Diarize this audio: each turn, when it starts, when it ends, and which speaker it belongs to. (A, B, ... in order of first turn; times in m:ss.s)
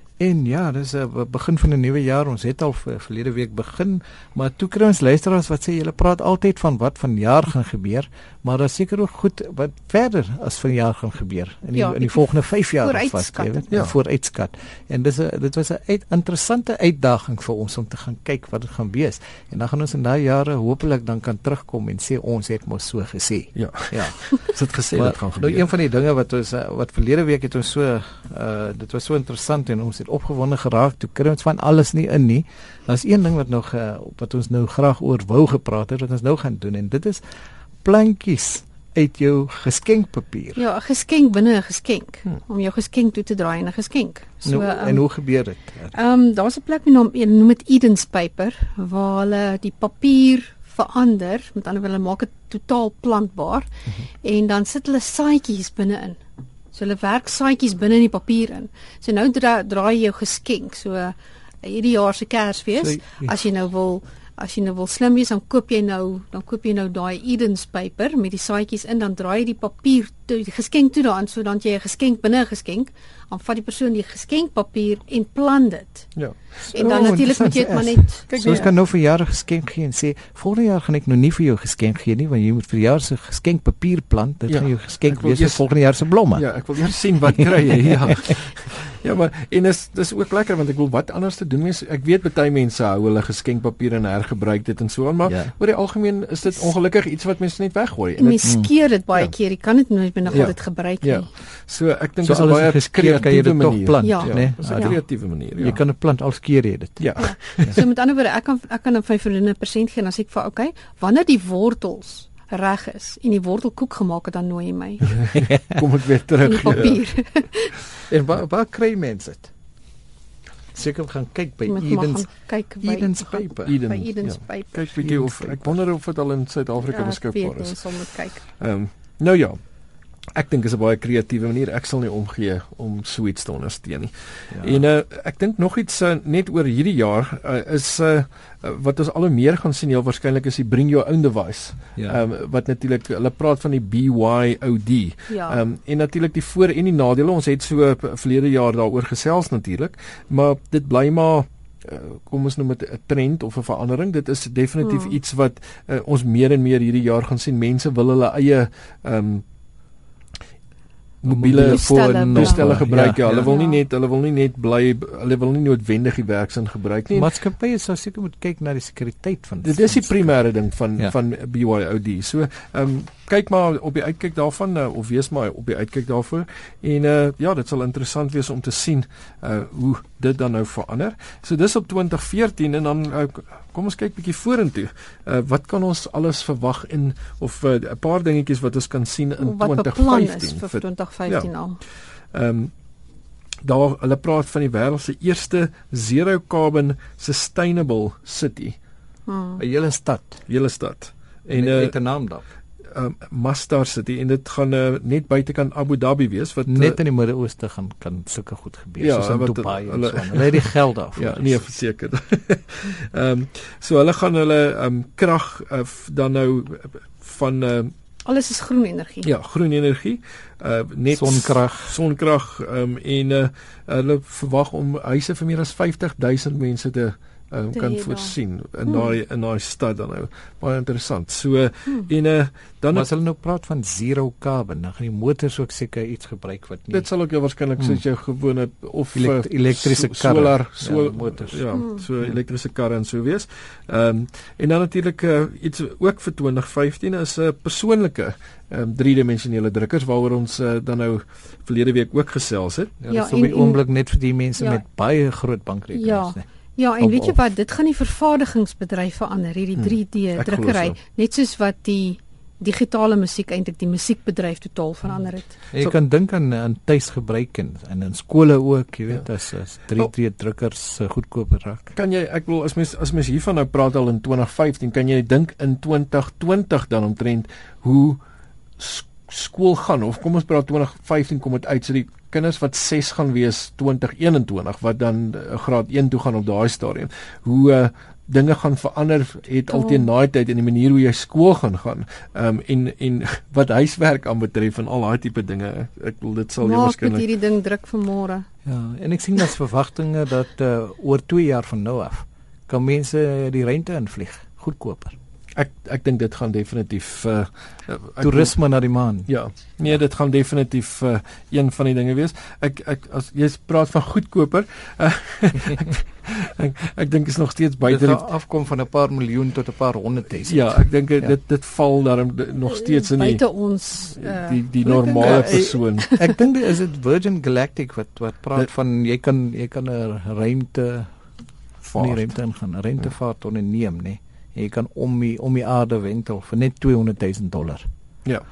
0:00.2-0:24.2 A
0:11.7-0:13.8 B
0:13.7-0:13.9 C
0:23.5-0:25.7 C
0:24.9-0:37.2 A
0:37.8-0:40.6 A
0:40.6-0:45.1 B
0:44.4-0:45.9 A
0:45.9-0:53.7 B
0:54.2-0:56.2 B
0:56.7-1:16.1 B
1:02.8-1:03.4 A
1:16.2-1:17.2 C
1:16.7-1:26.4 A
1:16.7-1:18.7 B
1:18.3-1:18.7 C
1:24.5-1:25.7 C
1:26.3-1:38.6 C
1:35.2-1:35.5 A
1:38.2-1:41.3 B
1:38.4-1:38.7 A
1:40.3-1:45.8 C
1:42.2-1:45.0 A
1:44.0-1:44.9 B
1:45.6-1:47.8 A
1:47.0-1:47.8 C
1:47.2-1:55.1 B
1:55.1-1:57.0 C
1:56.4-1:57.8 B
1:56.6-1:56.9 A
1:58.1-1:59.5 A
2:00.7-2:02.3 A
2:01.6-2:04.8 B
2:02.8-2:03.8 A
2:03.6-2:09.6 C
2:05.0-2:05.8 A
2:06.8-2:08.4 B
2:10.3-2:39.4 C
2:14.5-2:14.8 A
2:25.3-2:25.6 B
2:34.8-2:35.2 B
2:41.2-2:47.3 C
2:41.2-2:43.5 A
2:41.6-2:43.8 B
2:47.1-2:50.3 A
2:49.6-3:11.5 C
3:09.4-3:11.8 B
3:12.3-3:12.7 C
3:13.6-3:18.8 C
3:19.3-3:19.6 B
3:19.6-3:20.4 A
3:20.5-3:21.9 C
3:21.5-3:22.4 A
3:22.9-3:27.0 C
3:26.7-3:31.6 A
3:29.0-3:37.9 C
3:38.2-3:39.3 B
3:39.2-3:53.1 C
3:41.1-3:42.0 A
3:47.7-3:48.3 B
3:52.9-3:57.1 A
3:56.9-4:12.9 C
3:59.1-4:01.7 A
4:01.7-4:02.0 B
4:13.0-4:16.4 A
4:13.1-4:13.8 B
4:15.9-4:25.6 B
4:17.0-4:17.4 A
4:19.8-4:21.0 C
4:25.7-4:31.9 A
4:31.9-4:38.2 C
4:38.8-4:57.2 C
4:49.7-4:50.1 B
4:56.6-4:58.4 B
4:58.6-5:05.2 A
5:05.6-5:08.5 C
5:08.2-5:09.3 A
5:09.3-5:18.2 C
5:17.8-5:21.3 A
5:20.4-5:23.4 C
5:22.6-5:26.3 B
5:24.2-5:26.1 C
5:25.1-5:31.1 A
5:31.8-5:32.2 C
5:32.0-5:37.9 A